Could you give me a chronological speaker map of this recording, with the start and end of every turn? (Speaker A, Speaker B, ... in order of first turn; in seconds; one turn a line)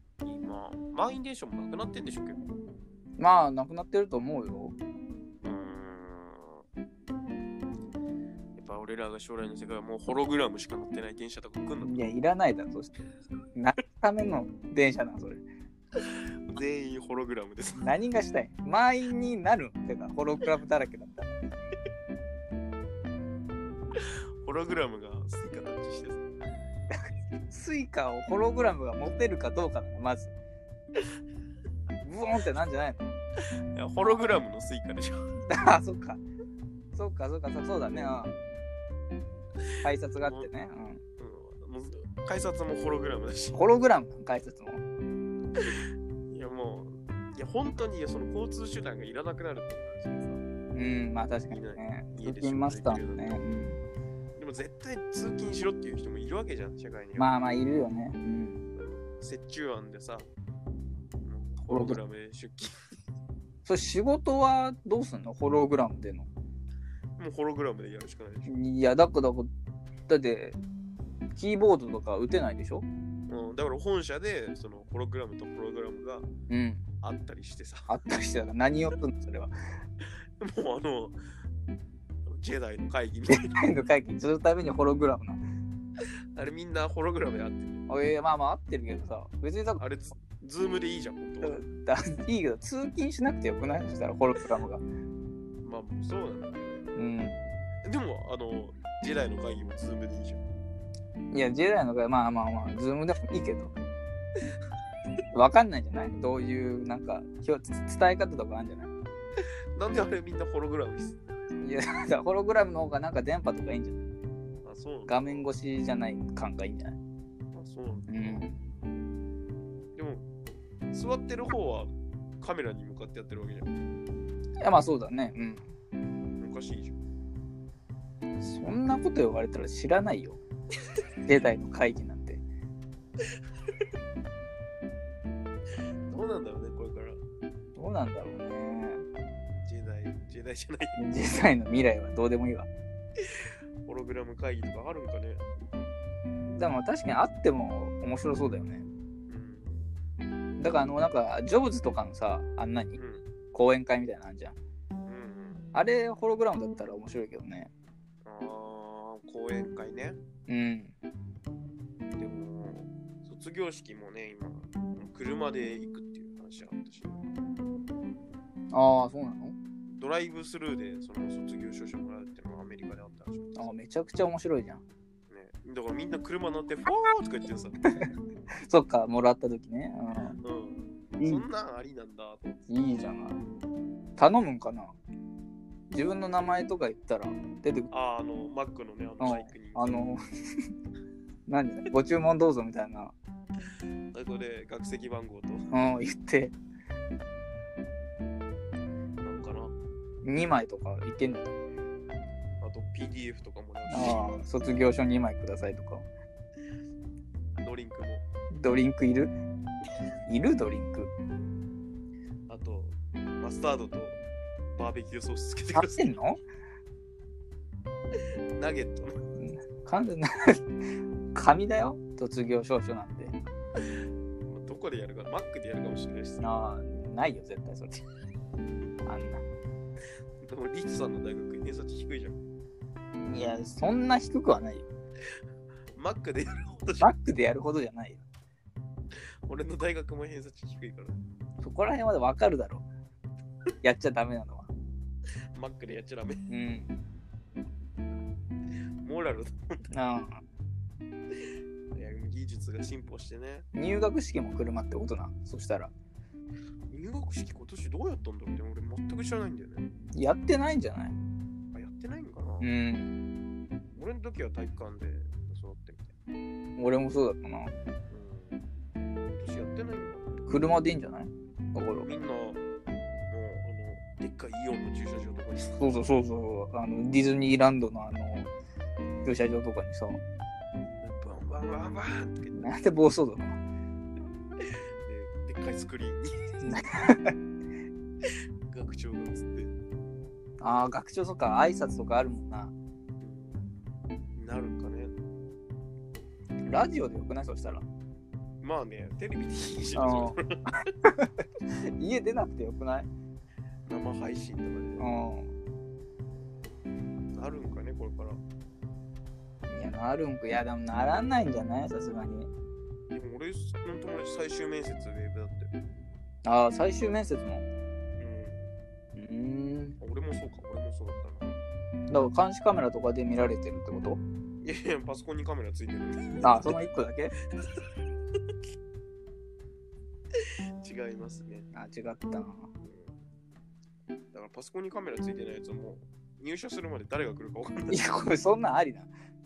Speaker A: 0.2-2.4
Speaker B: 3.2-4.8
Speaker A: 5.4-6.7
Speaker A: 8.6-12.0
Speaker B: 11.8-12.9
Speaker B: 13.6-15.4
Speaker A: 16.0-17.9
Speaker B: 17.8-21.4
Speaker A: 24.0-26.2
Speaker B: 27.5-30.3
Speaker B: 32.0-33.1
Speaker A: 33.8-35.2
Speaker B: 35.5-36.2
Speaker B: 36.9-38.4
Speaker B: 39.8-41.0
Speaker A: 40.2-40.5
Speaker A: 41.2-43.7
Speaker B: 43.5-44.8
Speaker A: 46.3-50.4
Speaker B: 50.8-53.8
Speaker A: 51.5-53.4
Speaker A: 54.4-57.3
Speaker B: 57.2-58.6
Speaker A: 58.8-60.3
Speaker A: 61.2-62.8
Speaker B: 61.7-62.0
Speaker B: 63.7-66.3
Speaker A: 67.2-68.6
Speaker B: 68.5-69.5
Speaker B: 70.1-70.6
Speaker B: 71.3-72.9
Speaker A: 73.3-76.3
Speaker B: 76.5-76.8
Speaker A: 77.0-77.9
Speaker B: 77.9-79.5
Speaker A: 80.4-81.2
Speaker A: 82.3-83.6
Speaker B: 83.4-85.4
Speaker A: 86.3-87.9
Speaker B: 87.9-89.8
Speaker A: 89.8-91.6
Speaker B: 91.4-94.8
Speaker A: 95.6-96.9
Speaker B: 97.0-97.4
Speaker A: 97.9-100.4
Speaker B: 101.3-103.7
Speaker B: 105.3-108.9
Speaker A: 109.8-111.2
Speaker B: 111.6-114.0
Speaker A: 114.6-115.5
Speaker B: 115.1-117.0
Speaker A: 117.5-118.5
Speaker B: 118.1-118.6
Speaker A: 120.0-120.2
Speaker A: 120.9-123.7
Speaker B: 124.6-125.7
Speaker A: 126.4-127.0
Speaker B: 128.4-130.4
Speaker B: 131.3-132.4
Speaker A: 136.1-137.2
Speaker B: 137.8-139.1
Speaker A: 139.6-141.0
Speaker B: 141.0-142.7
Speaker A: 143.2-145.5
Speaker B: 146.5-148.9
Speaker A: 149.3-149.9
Speaker B: 150.6-153.0
Speaker A: 152.9-153.3
Speaker B: 153.5-154.6
Speaker A: 155.1-155.7
Speaker B: 155.7-157.7
Speaker A: 158.2-160.2
Speaker B: 160.5-160.9
Speaker A: 162.2-167.3
Speaker B: 168.7-169.6
Speaker A: 169.9-173.7
Speaker B: 173.6-174.8
Speaker A: 175.3-177.8
Speaker B: 178.7-180.4
Speaker A: 180.4-182.6
Speaker B: 181.2-181.5
Speaker B: 182.7-183.4
Speaker B: 184.2-185.0
Speaker B: 185.9-187.9
Speaker A: 187.9-190.0
Speaker B: 189.2-190.2
Speaker B: 191.5-193.2
Speaker A: 194.1-195.7
Speaker B: 195.7-196.6
Speaker A: 199.2-199.8
Speaker B: 200.2-201.6
Speaker A: 202.6-204.6
Speaker B: 203.9-206.1
Speaker A: 207.6-208.2
Speaker B: 208.5-209.3
Speaker B: 210.3-211.1
Speaker A: 212.5-214.2
Speaker A: 214.7-216.2
Speaker B: 215.7-216.4
Speaker A: 218.6-219.2
Speaker B: 219.4-220.6
Speaker B: 221.3-223.4
Speaker A: 224.5-226.6
Speaker B: 226.4-228.1
Speaker B: 229.1-229.4
Speaker A: 230.4-232.4
Speaker B: 233.2-234.8
Speaker A: 235.9-237.1
Speaker B: 237.0-238.2
Speaker A: 239.5-241.2
Speaker B: 241.6-242.9
Speaker B: 243.8-244.7
Speaker A: 245.6-246.4
Speaker B: 246.5-246.9
Speaker A: 249.0-249.7
Speaker B: 249.9-250.4
Speaker A: 251.9-253.7
Speaker B: 253.7-255.9
Speaker A: 256.9-259.9
Speaker B: 260.1-261.1
Speaker A: 261.7-262.7
Speaker B: 262.6-263.1
Speaker A: 263.9-266.1
Speaker B: 266.8-267.7
Speaker A: 268.1-268.6
Speaker A: 269.2-270.4
Speaker B: 270.5-272.1
Speaker A: 272.0-272.6
Speaker A: 273.3-275.8
Speaker B: 275.8-278.5
Speaker B: 279.2-280.2
Speaker A: 280.8-282.8
Speaker B: 282.5-283.6
Speaker A: 284.6-286.9
Speaker B: 286.6-287.4
Speaker A: 288.7-289.7
Speaker B: 290.6-292.7
Speaker A: 293.2-293.7
Speaker A: 294.4-295.1
Speaker B: 296.7-297.9
Speaker A: 298.6-300.6
Speaker B: 300.0-300.4
Speaker B: 302.0-303.1
Speaker A: 303.9-305.1
Speaker B: 305.0-305.5
Speaker A: 307.4-308.4
Speaker B: 309.7-312.5
Speaker A: 313.1-315.7
Speaker B: 316.4-317.7
Speaker A: 318.2-318.7
Speaker B: 319.1-320.0
Speaker A: 320.0-321.6
Speaker B: 322.1-324.2
Speaker A: 324.6-326.7
Speaker B: 326.4-327.3
Speaker A: 330.8-331.7
Speaker B: 331.7-332.7
Speaker A: 332.8-333.2
Speaker A: 334.3-338.1
Speaker B: 337.9-339.1